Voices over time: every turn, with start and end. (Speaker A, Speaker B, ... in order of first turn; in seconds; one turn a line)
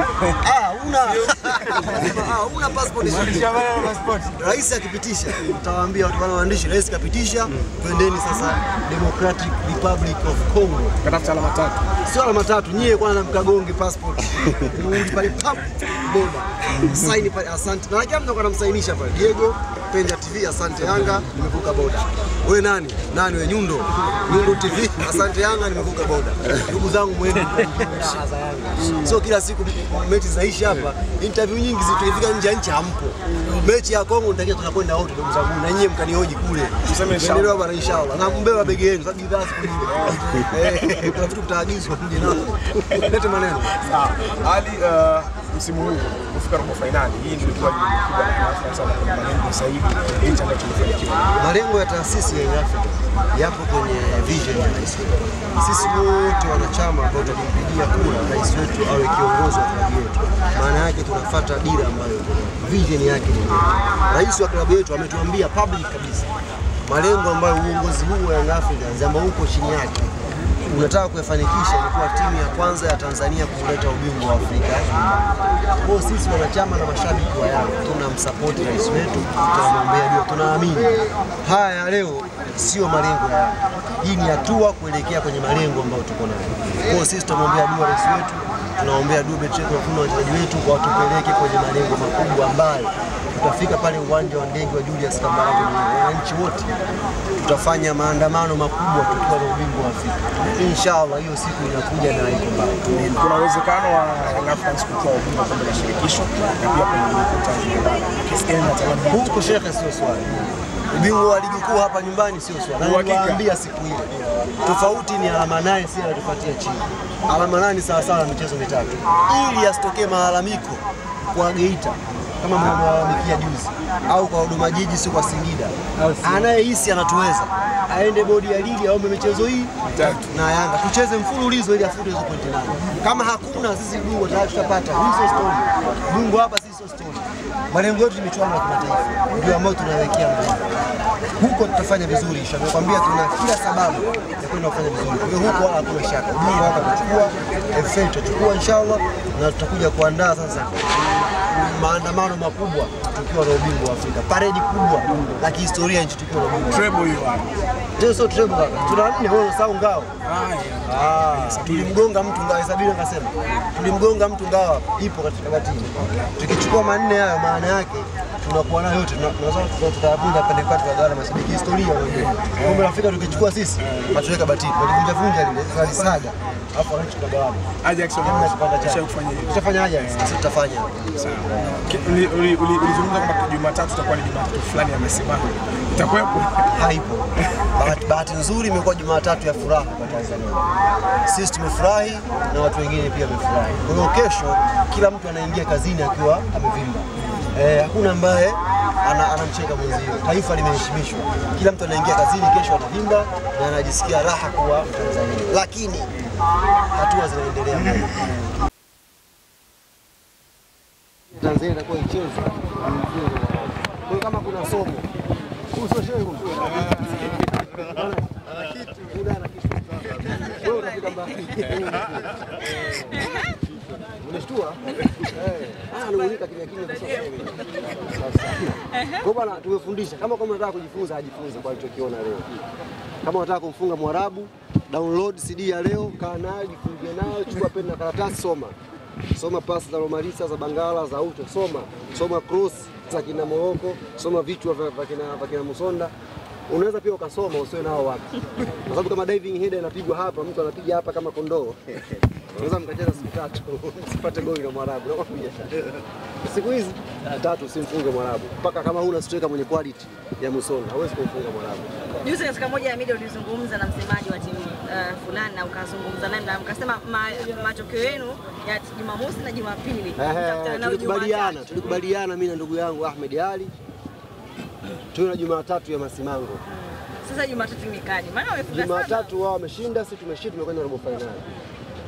Speaker A: 0.3-11.0
Speaker B: 3.6-4.0
Speaker B: 11.0-11.9
Speaker A: 12.0-43.8
Speaker B: 28.8-29.1
Speaker B: 36.9-37.6
Speaker B: 39.9-40.3
Speaker B: 43.8-51.4
Speaker A: 51.4-66.3
Speaker A: 66.8-96.8
Speaker A: 97.4-103.2
Speaker B: 103.1-109.5
Speaker A: 109.1-110.3
Speaker A: 110.9-114.1
Speaker B: 112.8-113.4
Speaker A: 114.6-140.8
Speaker B: 126.0-126.5
Speaker B: 129.9-130.3
Speaker A: 141.4-150.9
Speaker A: 151.4-156.8
Speaker B: 156.7-157.6
Speaker A: 158.0-160.2
Speaker B: 160.2-162.0
Speaker A: 160.8-177.7
Speaker B: 172.6-173.0
Speaker B: 173.8-174.2
Speaker B: 175.9-176.3
Speaker B: 177.8-180.4
Speaker A: 178.2-181.7
Speaker B: 181.2-186.7
Speaker A: 186.7-190.7
Speaker A: 191.2-206.1
Speaker A: 206.9-208.4
Speaker A: 211.4-215.1
Speaker A: 215.7-222.9
Speaker C: 220.3-221.7
Speaker C: 222.7-223.6
Speaker A: 224.2-232.5
Speaker C: 228.9-229.2
Speaker A: 233.2-238.8
Speaker A: 239.3-246.1
Speaker A: 246.7-248.2
Speaker A: 248.8-262.1
Speaker C: 262.2-272.0
Speaker A: 270.2-273.7
Speaker A: 275.1-276.6
Speaker C: 276.7-279.3
Speaker A: 278.7-281.4